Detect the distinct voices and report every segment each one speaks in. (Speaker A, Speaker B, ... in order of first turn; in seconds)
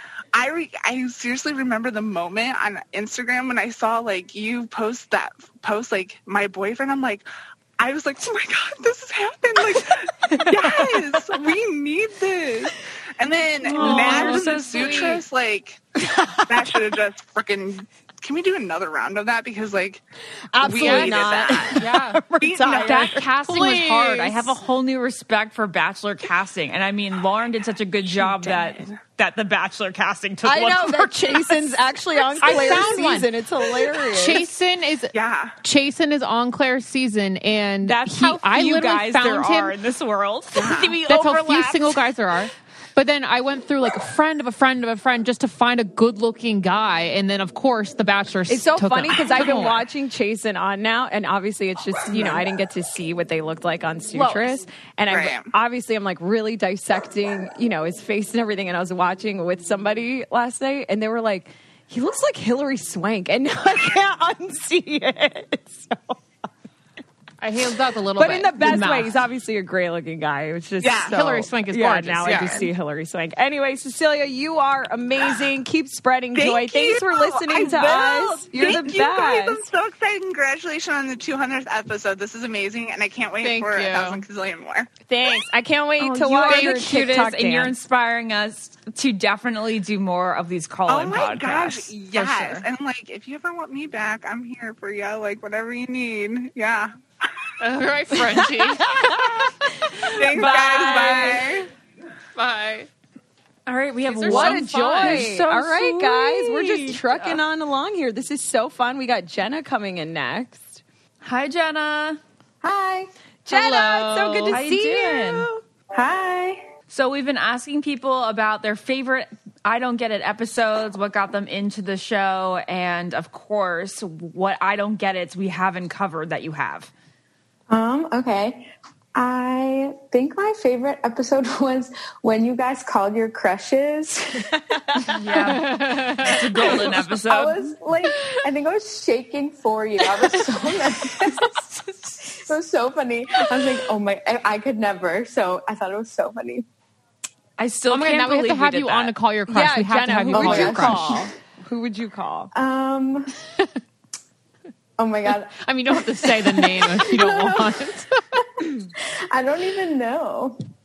Speaker A: 0.3-7.2, 7.8-15.8, 16.5-20.0, 20.6-21.8, 22.4-23.1, 35.1-35.5, 40.5-41.0, 55.1-55.5, 70.8-71.2, 76.3-84.9, 90.9-96.9, 100.1-101.7
Speaker B: 13.7-14.6, 20.5-23.2, 30.4-34.4, 48.5-66.2, 68.2-79.7, 85.1-87.7, 98.8-101.4, 104.2-110.8, 113.5-115.6, 134.8-135.2, 149.5-152.5
Speaker C: 13.7-15.2, 22.8-31.7, 32.3-32.8, 37.8-42.0, 54.1-54.6, 86.0-92.0, 100.3-101.5, 103.7-107.4, 111.2-112.2, 114.5-115.5, 116.9-126.9, 135.1-137.7, 147.6-149.1
Speaker D: 13.9-14.4, 20.8-22.2, 23.2-24.6, 32.4-33.3, 33.9-39.8, 41.0-49.8, 67.4-69.2, 71.1-72.7, 83.4-84.2, 86.5-86.8, 92.2-92.5, 97.6-99.3, 102.3-102.9, 104.1-105.3, 113.5-114.6, 135.4-136.8, 147.9-151.2, 155.6-158.2
Speaker E: 112.6-113.1, 115.9-116.6, 127.7-134.5, 136.7-141.6, 142.3-146.7, 150.3-151.2, 152.5-153.3, 155.0-157.8, 159.3-160.6